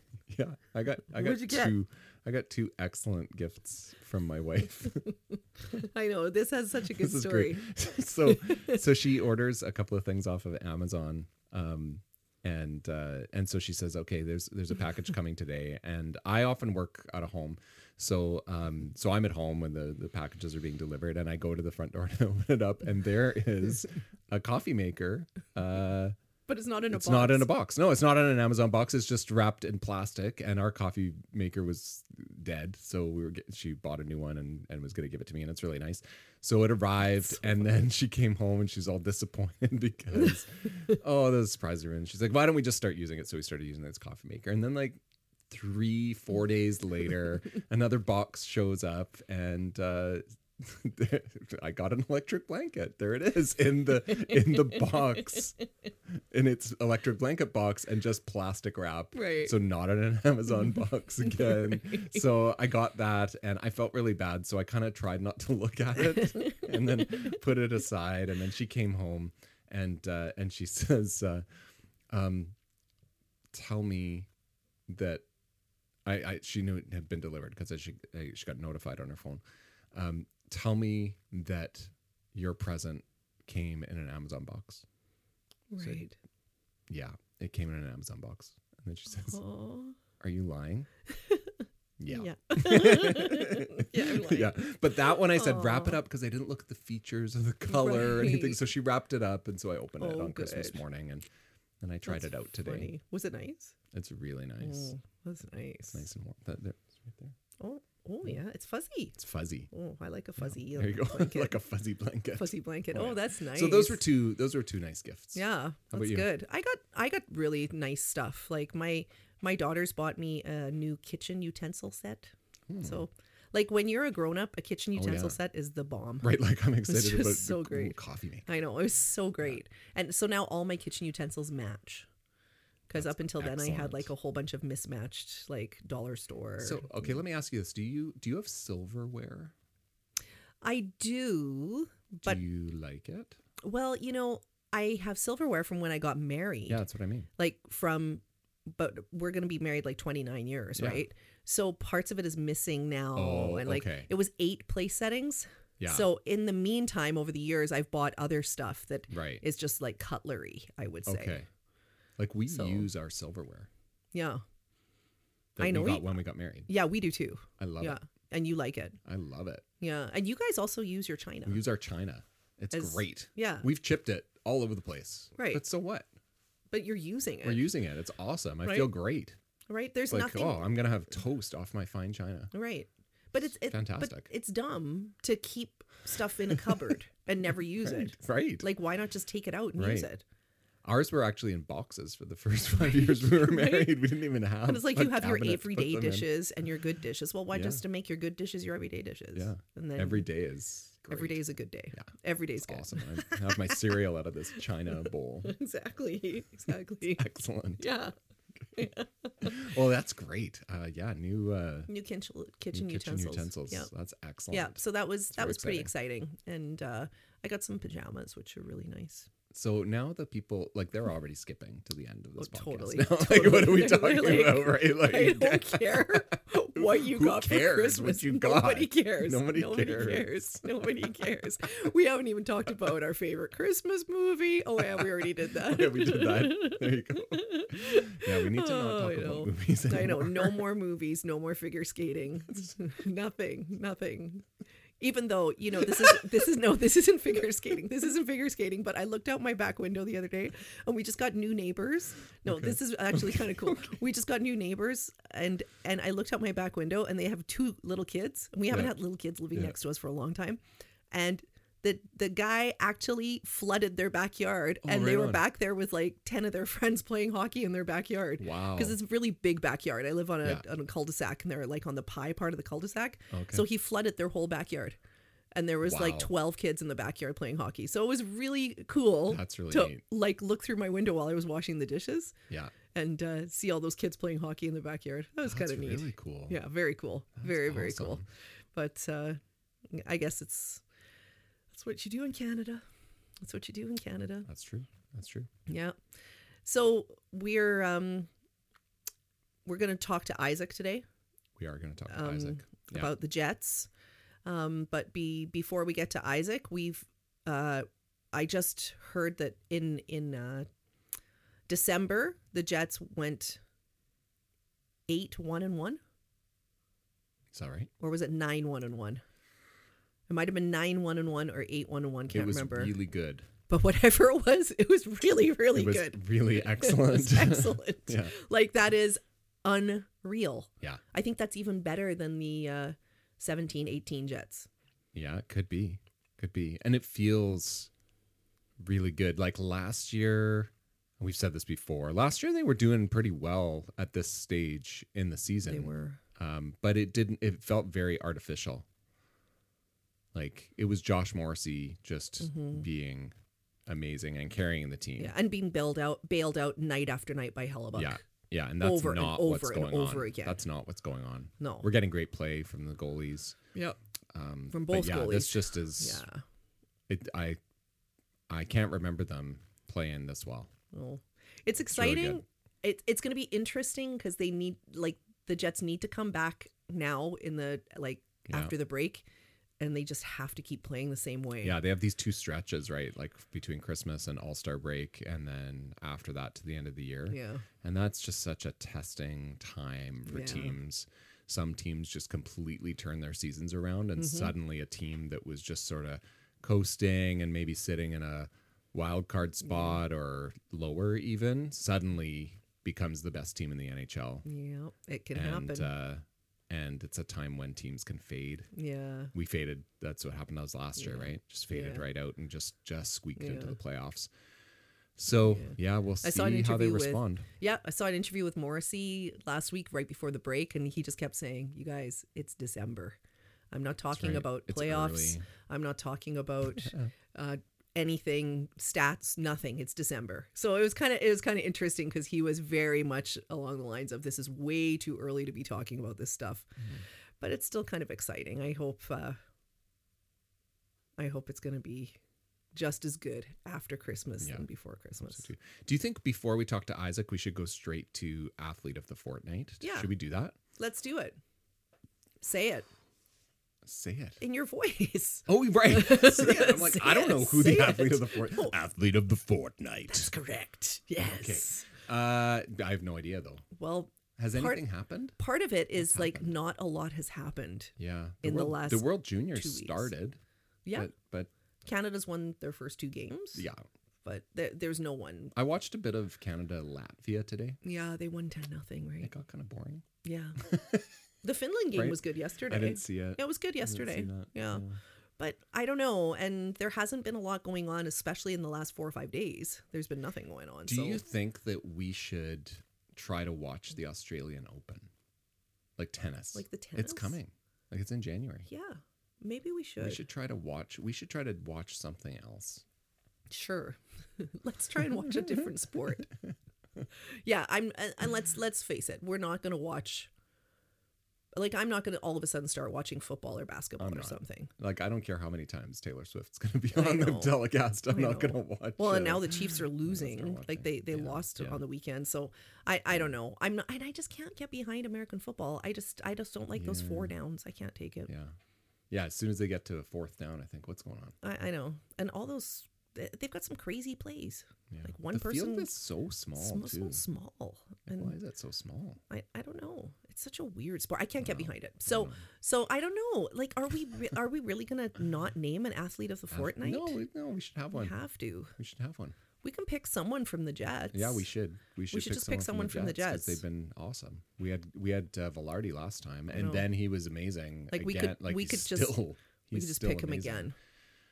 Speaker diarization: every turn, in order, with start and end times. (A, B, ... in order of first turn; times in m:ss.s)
0:00.3-0:05.0 A
0:01.2-0:01.7 B
0:05.7-0:07.7 B
0:06.9-0:26.2 A
0:08.2-0:08.8 B
0:26.5-0:27.5 B
0:26.9-0:55.6 A
0:54.1-0:55.3 B
0:56.3-1:11.4 A
0:59.1-0:59.5 B
1:01.3-1:02.2 B
1:06.2-1:07.4 B
1:12.1-1:12.6 A
1:13.5-1:14.3 A
1:14.9-1:15.2 A
1:16.0-1:19.4 A
1:19.9-1:24.8 A
1:25.7-1:26.2 B
1:25.8-1:26.0 A
1:26.9-1:29.4 A
1:29.3-1:30.0 B
1:30.2-1:30.9 A
1:32.0-1:41.3 A
1:32.1-1:36.0 B
1:37.7-1:38.6 B
1:40.0-1:40.8 B
1:41.8-1:42.9 A
1:42.1-1:43.8 B
1:43.9-1:44.9 A
1:44.6-1:46.1 B
1:45.9-1:47.4 A
1:47.6-1:49.2 B
1:49.2-1:49.7 A
1:49.7-1:51.6 B
1:50.4-1:56.3 A
1:52.4-1:54.0 B
1:55.4-2:06.3 B
2:02.7-2:03.0 A
2:05.0-2:05.4 A
2:06.2-2:08.5 A
2:06.9-2:12.1 B
2:12.9-2:17.2 B
2:13.0-2:14.1 A
2:16.6-2:19.5 A
2:20.6-2:22.4 B
2:22.2-2:23.4 A
2:23.6-2:26.8 B
2:26.7-2:27.3 A
2:27.4-2:41.3 B
2:30.8-2:31.0 A
2:33.2-2:34.1 A
2:35.8-2:36.1 A
2:39.1-2:39.4 A
2:41.1-2:41.5 A
2:42.2-2:43.7 A
2:42.5-2:42.9 B
2:44.1-2:44.4 B
2:45.6-2:46.7 A
2:45.6-2:49.0 B
2:47.6-2:48.0 A
2:49.0-2:49.6 A
2:49.8-2:51.6 B
2:51.5-2:56.1 A
2:52.7-2:53.7 B
2:55.4-2:55.6 B
2:56.7-2:57.6 B
2:57.4-2:59.4 A
2:58.6-2:58.9 B
2:59.7-3:00.7 B
3:00.1-3:02.5 A
3:02.5-3:10.2 B
3:03.7-3:04.3 A
3:06.5-3:06.8 A
3:07.8-3:08.7 A
3:09.8-3:10.1 A
3:10.8-3:16.3 A
3:12.8-3:14.0 B
3:14.6-3:20.3 B
3:17.5-3:17.8 A
3:19.4-3:21.4 A
3:21.1-3:23.8 B
3:22.6-3:25.5 A
3:25.4-3:27.2 B
3:27.2-3:27.8 A
3:27.8-3:28.1 B
3:28.7-3:29.7 B
3:29.4-3:31.9 A
3:31.9-3:33.9 B
3:32.7-3:34.8 A
3:34.5-3:39.3 B
3:35.3-3:35.9 A
3:39.5-3:50.6 A
3:42.4-4:04.5 B
3:54.8-4:00.6 A
4:05.0-4:35.0 B
4:12.5-4:14.0 A
4:18.7-4:19.0 A
4:24.8-4:25.4 A
4:28.4-4:29.0 A
4:33.3-4:33.6 A
4:35.5-4:42.4 B
4:35.8-4:36.3 A
4:39.3-4:40.0 A
4:42.9-4:48.2 B
4:45.4-4:46.6 A
4:47.4-4:48.2 A
4:48.7-4:49.4 B
4:49.9-4:50.8 B
4:51.7-4:52.8 B
4:53.4-4:54.5 B
4:54.4-4:55.5 A
4:55.7-4:56.0 B
4:56.6-4:58.3 B
4:59.6-5:01.0 B
5:01.6-5:03.1 A
5:02.1-5:03.9 B
5:04.4-5:10.7 B
5:11.7-5:13.6 B
5:15.1-5:16.0 B
5:17.5-5:17.9 A
5:18.0-5:19.2 B
5:20.3-5:23.0 B
5:22.3-5:23.5 A
5:23.7-5:34.7 B
5:25.7-5:28.3 A
5:35.1-5:37.9 A
5:38.8-5:48.9 A
5:45.6-5:46.2 B
5:50.3-5:53.3 A
5:52.4-5:52.9 B
5:53.9-5:55.3 A
5:55.2-5:58.2 B
5:58.0-6:03.6 A
5:58.8-6:00.6 B
6:01.6-6:01.9 B
6:04.3-6:06.2 A
6:04.7-6:06.4 B
6:07.1-6:07.6 A
6:08.5-6:10.7 A
6:10.9-6:19.3 B
6:11.9-6:12.4 A
6:19.8-6:21.8 B
6:21.6-6:44.5 A
6:27.3-6:27.6 B
6:30.3-6:30.8 B
6:34.2-6:34.5 B
6:39.6-6:40.0 B
6:44.5-6:45.9 B
6:45.4-6:48.7 A
6:48.7-6:49.3 B
6:49.3-6:54.3 A
6:51.0-6:52.0 B
6:53.4-6:53.8 B
6:55.2-6:57.5 A
6:55.4-7:03.2 B
7:03.7-7:16.7 B
7:04.1-7:05.5 A
7:06.8-7:07.1 A
7:17.4-7:19.4 B
7:21.2-7:22.2 B
7:22.7-7:25.5 B
7:24.4-7:24.7 A
7:25.2-7:30.6 A
7:29.8-7:30.1 B
7:30.8-7:31.4 B
7:32.4-7:32.9 B
7:33.8-7:34.4 A
7:34.4-7:38.8 B
7:35.5-7:40.3 A
7:40.1-7:41.9 B
7:41.2-7:43.7 A
7:43.7-7:44.8 B
7:44.4-7:45.4 A
7:45.4-7:50.1 B
7:46.0-7:46.5 A
7:48.0-7:50.4 A
7:50.8-7:51.1 B
7:50.9-7:51.5 A
7:51.8-7:53.7 B
7:53.6-7:53.9 A
7:54.2-7:55.6 B
7:55.6-7:57.8 A
7:57.8-7:59.3 B
7:59.2-8:00.1 A
8:00.2-8:00.6 B
8:00.6-8:01.1 A
8:01.4-8:04.8 B
8:01.9-8:05.0 A
8:05.4-8:11.2 B
8:10.9-8:15.1 A
8:16.0-8:18.7 A
8:16.5-8:17.4 B
8:18.7-8:20.2 B
8:20.0-8:22.8 A
8:23.5-8:26.3 B
8:25.2-8:25.7 A
8:26.3-8:27.1 A
8:27.3-8:30.3 B
8:31.5-8:34.7 B
8:34.0-8:41.8 A
8:37.0-8:37.6 B
8:38.1-8:48.3 B
8:46.8-8:47.3 A
8:48.3-8:48.6 A
8:49.1-8:51.4 A
8:51.4-8:55.9 B
8:54.9-8:57.2 A
8:56.6-8:58.4 B
8:58.1-8:59.2 A
8:59.3-9:07.2 B
9:01.4-9:02.4 A
9:06.5-9:08.2 A
9:07.9-9:08.8 B
9:08.8-9:09.4 A
9:09.6-9:11.5 B
9:11.1-9:20.7 A
9:12.1-9:13.6 B
9:16.5-9:16.9 B
9:17.9-9:19.2 B
9:19.7-9:20.8 B